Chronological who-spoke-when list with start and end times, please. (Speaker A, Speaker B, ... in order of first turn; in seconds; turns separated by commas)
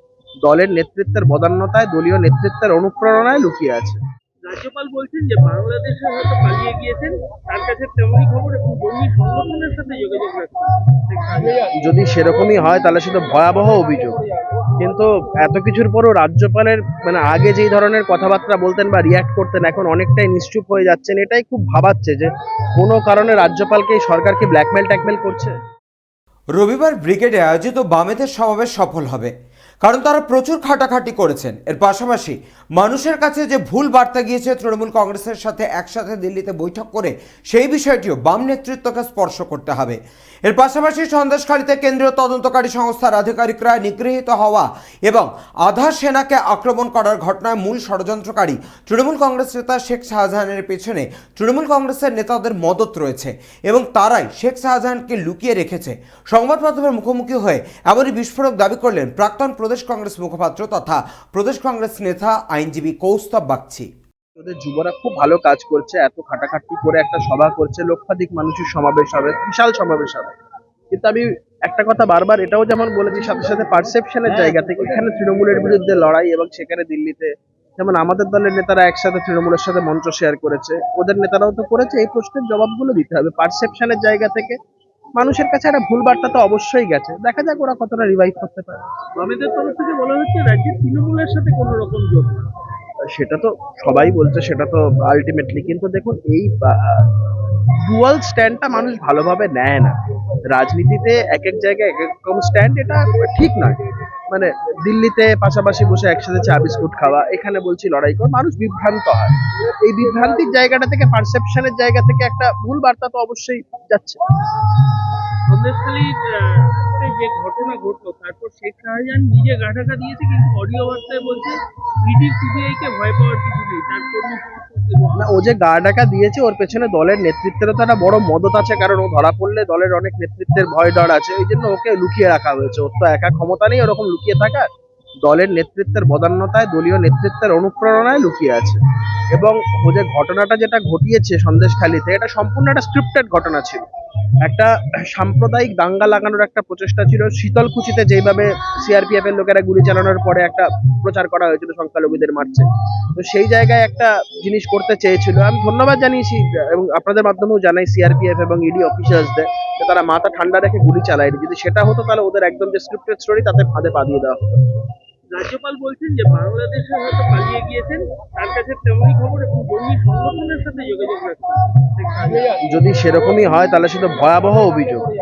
Speaker A: 0.4-4.0, Speaker B: 4.4-11.7, Speaker A: 11.8-14.1, Speaker A: 14.8-25.5, Speaker C: 26.6-29.3, Speaker C: 29.8-63.9, Speaker A: 64.4-70.3, Speaker A: 70.9-84.5, Speaker A: 85.2-88.9, Speaker B: 89.2-92.5, Speaker A: 93.1-97.0, Speaker A: 97.8-100.0, Speaker A: 100.5-103.8, Speaker A: 104.3-109.3, Speaker A: 109.8-114.2, Speaker B: 115.5-125.4, Speaker A: 125.2-134.7, Speaker A: 135.2-138.8, Speaker A: 139.3-143.8, Speaker A: 144.4-164.6, Speaker B: 165.3-172.6, Speaker A: 172.7-175.0